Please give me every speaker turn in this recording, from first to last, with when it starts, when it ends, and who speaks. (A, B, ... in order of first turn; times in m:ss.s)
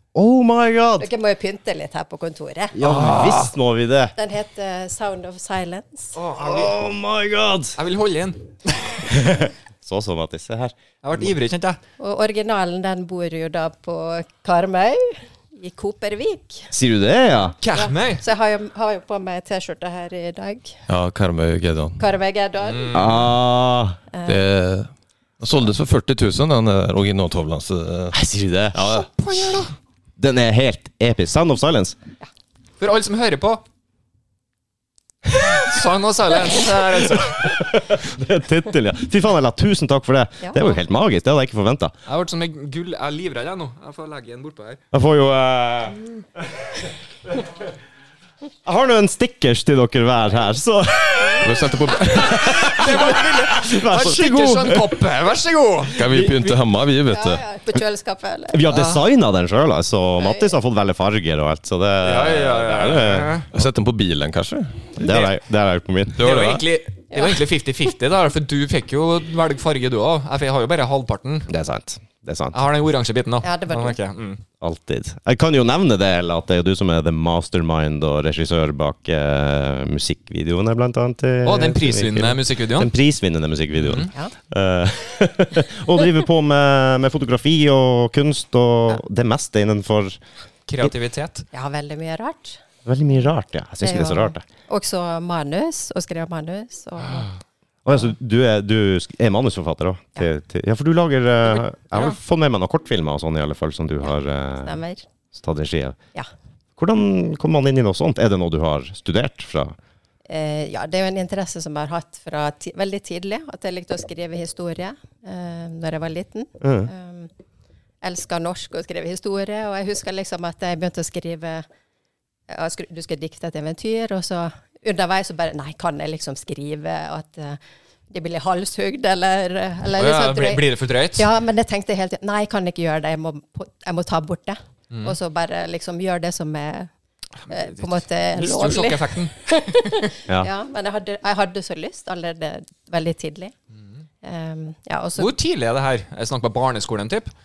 0:00.1-0:01.1 A
0:01.0-0:02.8 B
0:02.7-0:04.1 A
0:02.8-0:03.5 C
0:04.2-0:06.2 B
0:06.2-0:06.7 C
0:06.4-0:07.8 A
0:07.8-0:09.1 C
0:09.1-0:11.2 A
0:11.0-0:11.8 C
0:12.0-0:16.7 B
0:16.7-0:17.6 A
0:17.6-0:18.2 C
0:17.7-0:20.7 B
0:20.9-0:22.0 D
0:22.0-0:23.1 B
0:22.7-0:23.1 C
0:22.9-0:24.0 A
0:24.1-0:24.4 B
0:24.2-0:24.9 D
0:25.4-0:28.2 D
0:28.1-0:28.9 A
0:28.7-0:29.1 D
0:28.9-0:29.7 C
0:30.2-0:32.0 A
0:32.8-0:33.6 C
0:35.4-0:37.6 C
0:37.4-0:41.9 A
0:40.4-0:40.8 B
0:42.0-0:44.8 C
0:44.9-0:46.0 A
0:48.6-0:55.0 A
0:51.4-0:53.2 D
0:52.3-0:56.6 C
0:55.9-0:57.4 D
0:57.1-0:58.7 B
0:58.5-1:03.4 A
0:58.7-0:59.0 C
1:00.2-1:00.5 B
1:02.0-1:03.5 C
1:03.5-1:05.0 D
1:05.0-1:06.4 A
1:05.0-1:05.3 C
1:06.2-1:06.6 D
1:06.2-1:11.5 C
1:11.5-1:12.5 A
1:12.5-1:14.4 C
1:13.4-1:14.0 B
1:14.6-1:30.2 A
1:21.4-1:22.9 C
1:23.8-1:24.1 C
1:30.7-1:31.4 C
1:31.5-1:32.6 B
1:32.8-1:34.4 A
1:33.8-1:37.3 B
1:37.8-1:44.8 A
1:44.0-1:45.1 B
1:45.3-1:46.0 A
1:46.8-1:49.8 A
1:50.3-1:57.3 B
1:56.6-1:56.9 A
1:58.0-2:01.6 B
2:02.5-2:10.6 B
2:10.0-2:11.3 C
2:11.2-2:16.9 B
2:14.9-2:15.2 C
2:17.5-2:23.5 B
2:17.8-2:19.3 C
2:24.2-2:25.3 B
2:25.2-2:27.3 C